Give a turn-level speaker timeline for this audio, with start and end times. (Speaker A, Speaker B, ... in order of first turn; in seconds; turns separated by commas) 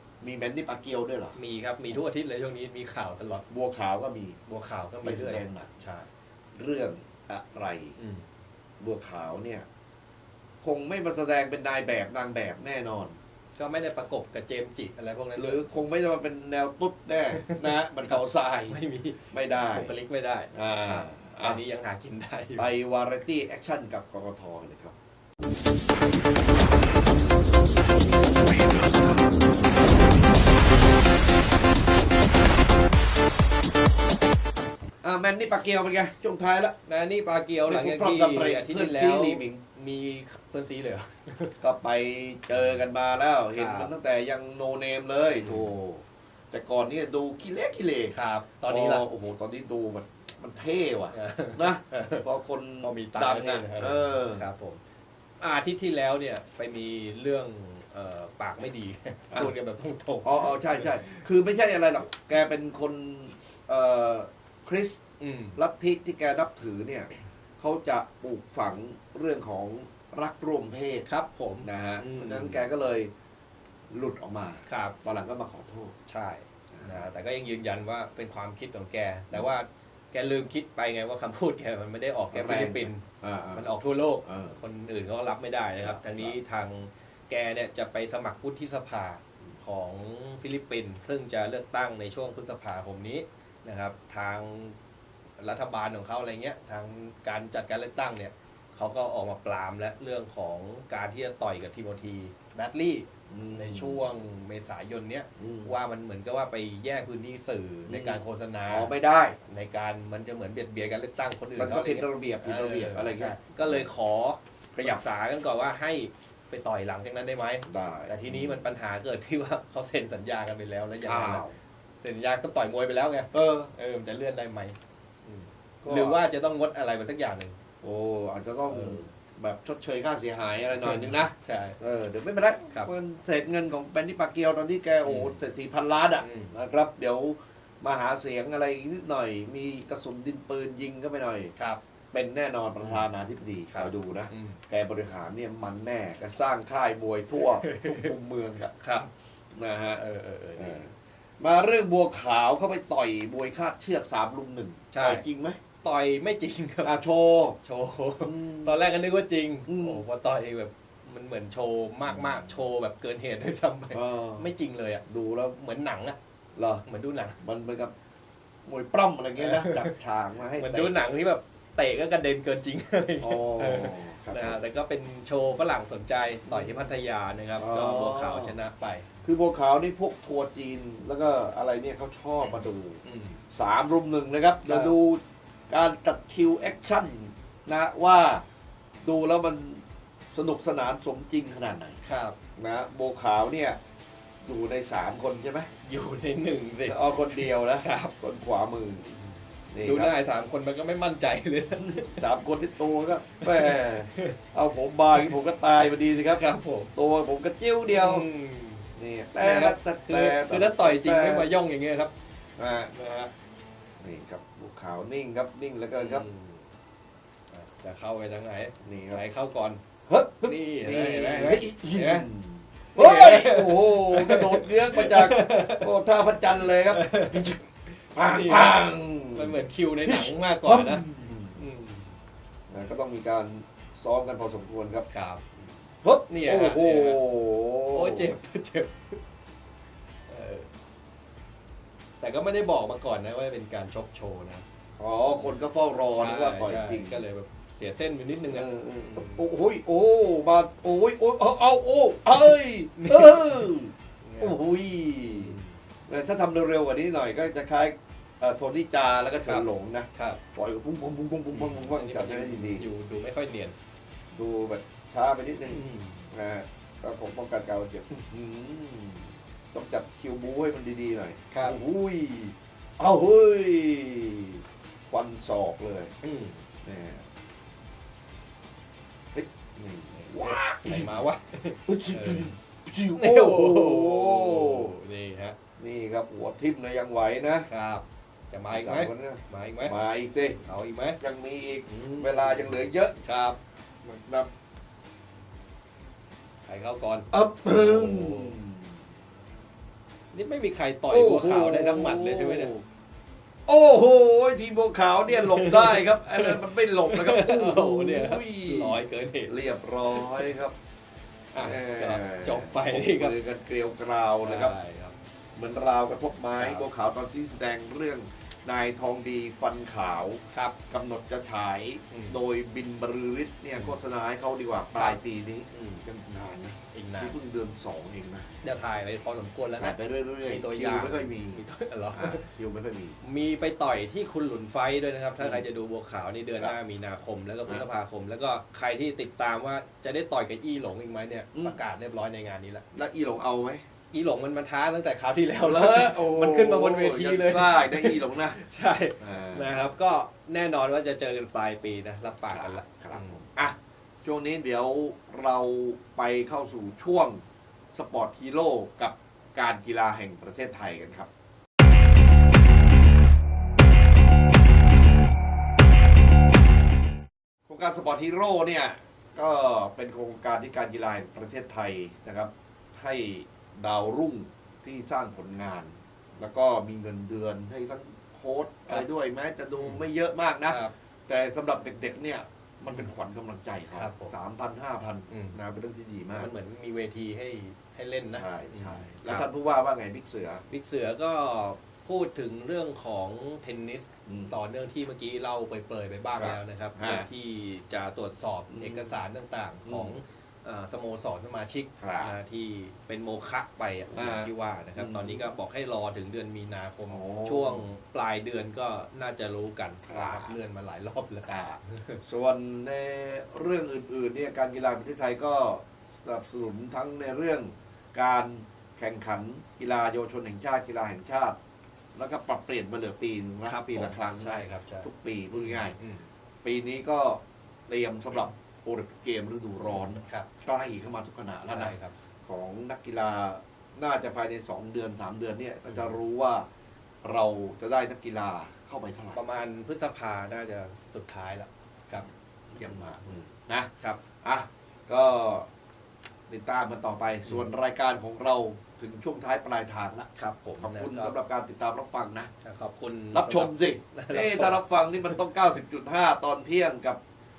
Speaker A: 0.2-1.4, Speaker B: 1.4-3.5, Speaker A: 3.5-4.4, Speaker B: 4.5-6.1, Speaker A: 5.0-5.8, Speaker A: 6.6-8.0, Speaker B: 8.0-8.2, Speaker A: 8.8-9.7, Speaker A: 10.6-13.2, Speaker B: 13.6-15.6, Speaker A: 15.4-19.9, Speaker B: 17.3-18.2, Speaker B: 18.7-22.7, Speaker A: 20.5-21.6, Speaker A: 22.6-24.9, Speaker A: 28.4-29.3, Speaker A: 35.0-36.8, Speaker B: 36.9-41.5, Speaker A: 37.7-39.6, Speaker A: 41.6-54.5, Speaker B: 43.5-43.9, Speaker B: 45.3-45.7, Speaker B: 48.1-49.0, Speaker B: 51.1-52.3, Speaker B: 52.8-54.8, Speaker B: 55.4-61.3, Speaker A: 60.2-65.0, Speaker B: 65.2-65.6, Speaker A: 65.6-71.1, Speaker B: 71.1-72.7, Speaker A: 71.6-73.1, Speaker A: 73.9-75.9, Speaker B: 74.7-75.0, Speaker B: 76.1-94.8, Speaker A: 76.7-77.1, Speaker A: 82.3-83.7, Speaker A: 84.2-84.6, Speaker A: 85.8-86.4, Speaker B: 95.4-108.9, Speaker A: 103.3-104.1, Speaker A: 105.4-105.8, Speaker A: 107.9-109.4, Speaker B: 109.4-121.5, Speaker A: 111.6-113.9, Speaker A: 114.8-115.1, Speaker A: 117.7-118.7, Speaker A: 121.0-121.6, Speaker B: 122.0-127.6, Speaker A: 123.3-123.7, Speaker A: 125.8-126.2, Speaker A: 127.8-141.5, Speaker B: 128.7-129.0, Speaker B: 130.8-131.8, Speaker B: 135.0-135.4, Speaker B: 136.2-136.6, Speaker A: 142.1-148.7, Speaker B: 142.8-143.1, Speaker B: 143.7-144.6, Speaker B: 147.3-148.1, Speaker B: 148.8-149.1, Speaker A: 149.5-150.0, Speaker B: 150.0-150.9, Speaker A: 150.6-155.7, Speaker B: 154.9-155.3, Speaker B: 155.8-166.2, Speaker A: 156.8-157.6, Speaker A: 158.2-158.8, Speaker A: 159.7-160.1, Speaker A: 162.1-162.6, Speaker A: 163.9-164.5, Speaker A: 165.1-165.6, Speaker A: 166.6-166.8, Speaker B: 166.9-167.4, Speaker A: 167.4-167.9, Speaker A: 168.7-170.9, Speaker B: 169.4-170.0, Speaker B: 170.6-179.1, Speaker A: 173.2-174.6, Speaker A: 176.5-176.8, Speaker A: 177.6-178.6, Speaker A: 179.2-188.4, Speaker B: 183.1-183.4, Speaker B: 184.6-184.9, Speaker A: 189.0-192.0, Speaker B: 192.0-192.4, Speaker A: 192.5-193.8, Speaker A: 194.4-195.7, Speaker B: 195.8-198.1, Speaker A: 196.8-199.1, Speaker A: 199.7-200.2, Speaker B: 199.8-202.3, Speaker A: 201.8-208.3, Speaker B: 203.4-204.4, Speaker B: 206.1-206.9, Speaker B: 207.9-212.1, Speaker A: 209.0-211.5, Speaker A: 212.6-212.9, Speaker B: 212.9-213.3, Speaker A: 214.0-216.3, Speaker B: 216.0-216.7, Speaker B: 217.5-219.8, Speaker A: 218.8-219.2, Speaker A: 220.1-231.6, Speaker B: 220.4-222.3, Speaker B: 222.9-225.9, Speaker B: 226.8-232.2, Speaker A: 232.7-235.1, Speaker B: 235.1-235.6, Speaker A: 236.0-238.3, Speaker B: 236.3-237.2, Speaker B: 237.9-239.2, Speaker B: 240.3-240.7, Speaker B: 242.2-244.7, Speaker A: 245.0-247.2, Speaker B: 246.2-249.5, Speaker A: 248.5-255.6, Speaker B: 252.4-254.6, Speaker B: 255.4-255.7, Speaker A: 256.1-262.9, Speaker B: 259.5-260.4, Speaker B: 261.5-263.8, Speaker A: 264.3-276.1, Speaker B: 265.7-266.3, Speaker B: 271.5-271.8, Speaker B: 276.2-276.6, Speaker A: 276.8-277.3, Speaker A: 279.3-281.2, Speaker B: 280.1-282.5, Speaker A: 281.9-285.0, Speaker B: 283.1-285.6, Speaker A: 285.8-287.7, Speaker B: 287.7-289.9, Speaker A: 288.7-290.7, Speaker B: 290.6-291.2, Speaker A: 291.2-293.2, Speaker B: 291.9-293.6, Speaker A: 294.0-294.5, Speaker B: 296.6-298.6, Speaker A: 297.3-299.0, Speaker B: 300.3-302.7, Speaker A: 301.1-302.8, Speaker A: 303.7-310.8, Speaker B: 305.3-309.5, Speaker B: 310.1-310.6, Speaker B: 311.5-313.4, Speaker A: 311.6-314.8, Speaker B: 314.4-315.2, Speaker A: 315.6-328.5, Speaker B: 316.6-316.9, Speaker B: 320.5-320.8, Speaker B: 322.1-322.4, Speaker B: 323.7-324.0, Speaker B: 324.9-325.2, Speaker B: 325.8-326.0, Speaker B: 326.9-327.4, Speaker B: 328.6-332.5, Speaker A: 329.8-333.2, Speaker B: 333.2-342.9, Speaker A: 335.4-335.7, Speaker A: 341.5-341.8, Speaker A: 342.9-343.8, Speaker B: 344.1-353.4, Speaker A: 345.6-348.7, Speaker A: 349.2-349.9, Speaker A: 352.5-361.3, Speaker A: 367.7-386.5, Speaker B: 379.8-380.1, Speaker B: 382.9-383.1, Speaker B: 383.9-384.4, Speaker B: 385.3-385.6, Speaker B: 386.3-389.5, Speaker A: 388.3-390.6, Speaker B: 390.7-412.2, Speaker A: 394.3-394.6, Speaker A: 396.4-397.3, Speaker A: 398.7-399.2, Speaker A: 399.8-400.2, Speaker A: 402.0-402.4, Speaker A: 404.1-405.5, Speaker A: 407.1-407.9, Speaker A: 410.1-410.6, Speaker A: 411.5-421.6, Speaker A: 422.1-426.0, Speaker B: 423.6-426.3, Speaker A: 426.6-436.7, Speaker B: 430.0-430.5, Speaker B: 431.7-432.1, Speaker B: 435.9-436.1, Speaker A: 437.2-439.4, Speaker B: 439.3-442.3, Speaker A: 442.2-445.7, Speaker B: 444.0-444.3, Speaker A: 446.5-452.5, Speaker B: 450.4-451.4, Speaker B: 452.6-455.4, Speaker A: 453.3-457.2